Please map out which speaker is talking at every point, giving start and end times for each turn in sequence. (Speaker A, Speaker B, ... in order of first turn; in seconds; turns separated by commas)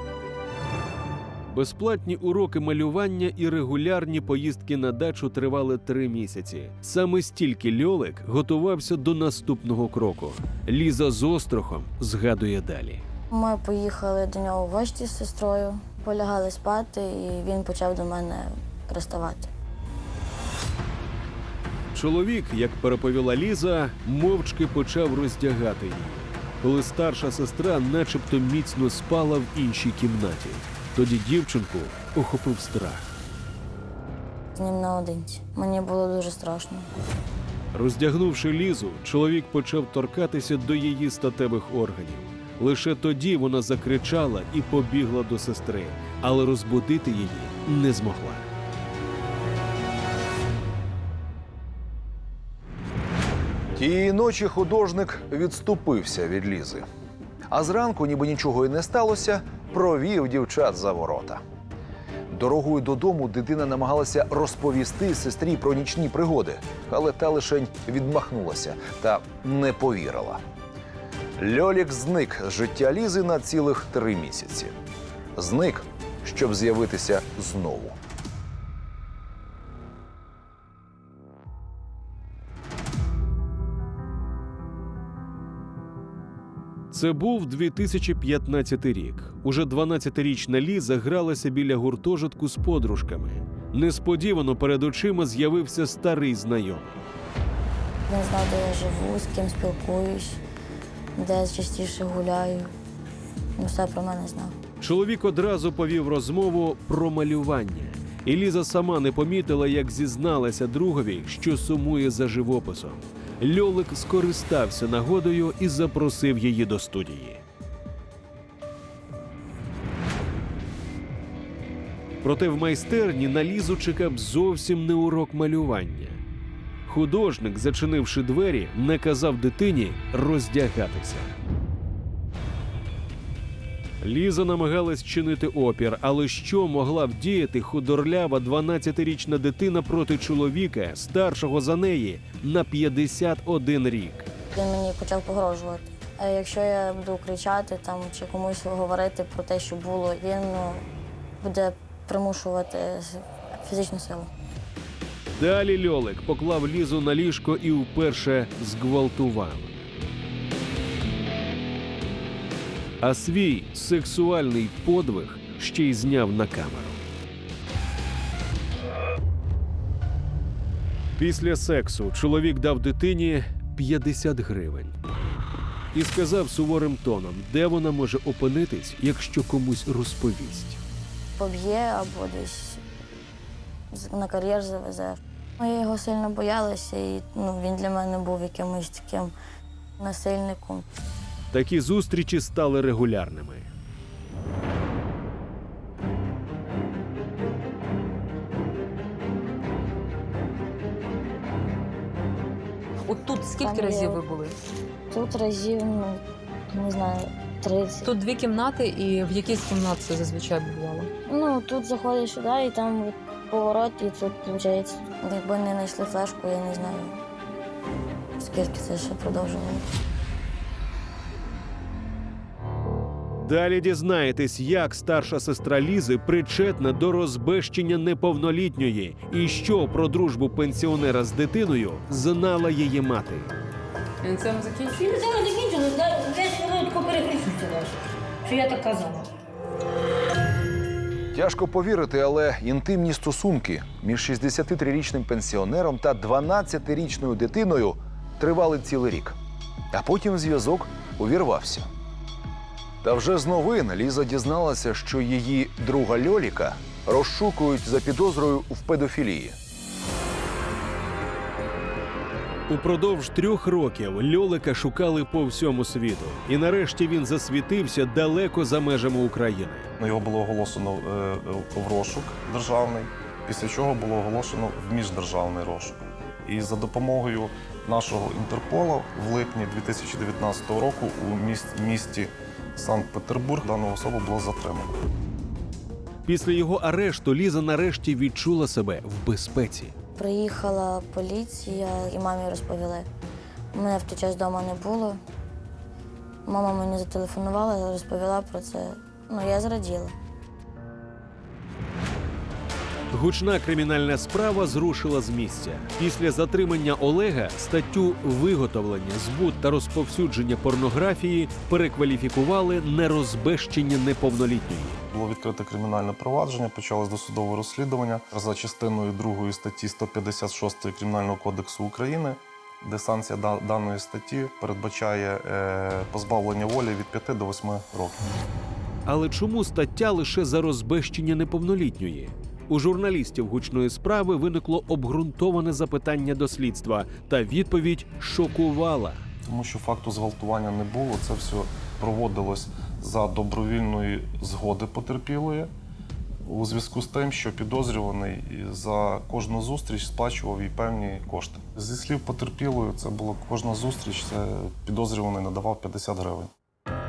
Speaker A: 1.5-13.0, Speaker B: 13.3-19.5, Speaker A: 21.9-33.1, Speaker B: 34.5-36.9, Speaker A: 37.7-48.5, Speaker C: 53.8-56.8, Speaker C: 57.5-61.4, Speaker C: 62.3-70.4, Speaker C: 71.4-74.7, Speaker C: 75.3-78.0, Speaker A: 86.9-97.0, Speaker B: 98.1-100.4, Speaker B: 101.2-102.7, Speaker B: 103.6-104.5, Speaker A: 104.8-117.4, Speaker A: 122.2-126.2, Speaker A: 126.9-131.3, Speaker A: 134.0-144.3, Speaker B: 144.5-150.8, Speaker B: 151.4-154.3, Speaker A: 155.4-159.8, Speaker A: 163.0-167.0, Speaker A: 171.2-174.9, Speaker A: 175.9-180.8, Speaker B: 181.4-182.8, Speaker B: 183.9-189.3, Speaker B: 190.0-190.9, Speaker A: 191.5-193.7, Speaker D: 203.1-204.5, Speaker B: 203.6-204.2, Speaker B: 205.1-208.1, Speaker D: 208.0-211.1, Speaker B: 211.3-217.2, Speaker B: 218.4-219.9, Speaker A: 223.4-233.5, Speaker D: 234.2-235.0, Speaker E: 234.9-239.3, Speaker C: 241.3-249.3, Speaker C: 249.9-251.9, Speaker C: 253.0-259.6, Speaker A: 262.7-269.9, Speaker F: 270.0-284.9, Speaker A: 286.2-289.9, Speaker B: 290.1-293.1, Speaker B: 293.7-295.2, Speaker B: 296.4-300.1, Speaker A: 303.1-315.0, Speaker F: 315.1-328.2, Speaker A: 329.1-339.2, Speaker F: 339.4-345.7, Speaker F: 346.4-356.5